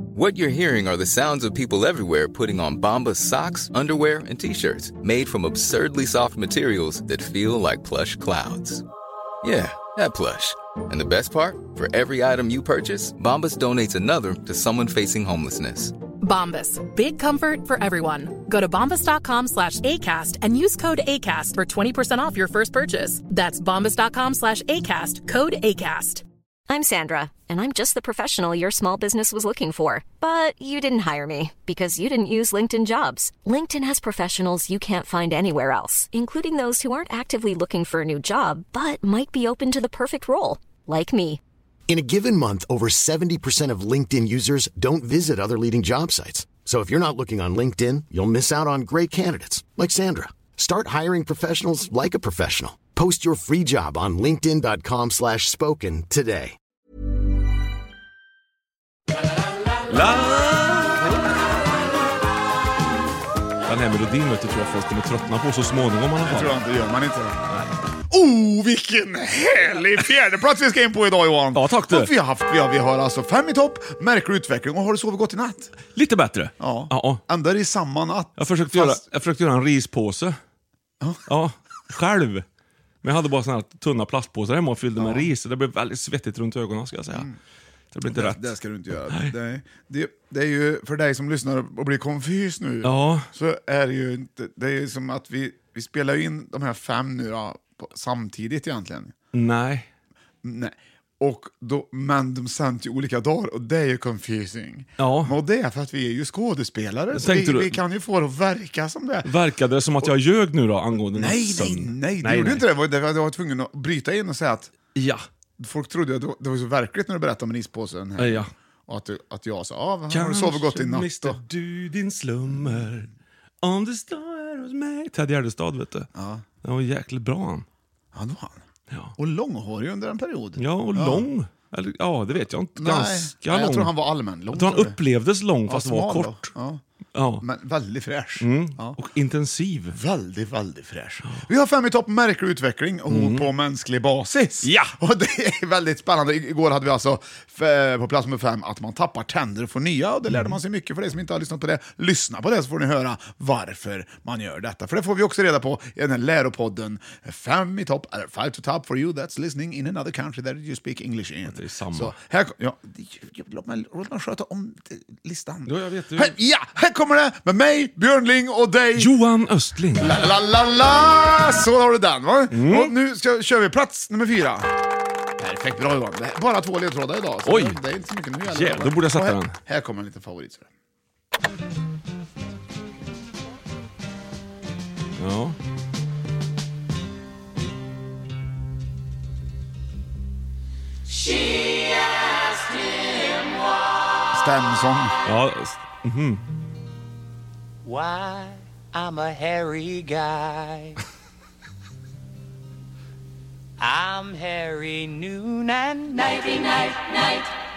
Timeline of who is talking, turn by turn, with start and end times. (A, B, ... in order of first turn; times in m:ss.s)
0:00.2-0:08.8 A
0:09.4-0:16.0 A
0:16.2-0:26.2 B
0:26.7-0:41.4 C
0:41.9-0:56.6 D
0:59.9-1:01.2 E
1:03.7-1:06.6 E
1:06.2-1:07.4 F
1:08.1-1:15.8 F
1:11.5-1:12.1 E
1:15.9-1:17.2 E
1:16.6-1:19.0 F
1:18.4-1:20.4 E
1:21.3-1:22.4 E
1:23.0-1:27.3 E
1:25.0-1:25.3 F
1:27.1-1:27.4 F
1:27.9-1:28.6 E
1:28.1-1:39.1 F
1:32.8-1:33.2 E
1:39.3-1:39.9 E
1:40.4-1:49.3 F
1:45.0-1:45.4 E
1:47.1-1:47.8 E
1:49.2-1:52.7 E
1:51.1-1:54.7 F
1:55.0-1:55.2 E
1:55.6-2:01.4 F
1:58.2-1:58.5 E
2:00.1-2:03.1 E
2:03.6-2:06.1 E
2:06.2-2:06.4 F
2:06.6-2:07.7 E
2:08.1-2:08.6 F
2:08.9-2:09.2 E
2:09.2-2:11.3 F
2:10.6-2:16.6 E
2:12.8-2:15.0 F
2:15.7-2:16.8 F
2:17.2-2:17.5 E
2:17.4-2:19.0 F
2:18.4-2:20.0 E
2:19.9-2:49.1 F
2:23.1-2:23.5 E
2:24.6-2:24.9 E
2:30.3-2:30.6 E
2:41.5-2:42.1 E
2:45.7-2:46.4 E
2:49.0-2:50.3 E
2:50.0-2:54.7 F
2:52.5-2:52.9 E
2:55.4-3:00.7 F
2:57.4-2:57.8 E
2:58.4-2:59.6 E
3:05.2-3:05.6 E
3:11.3-3:13.3 G
3:14.3-3:15.2 F
3:15.2-3:16.4 E
3:17.8-3:21.0 G
3:23.8-3:27.5 G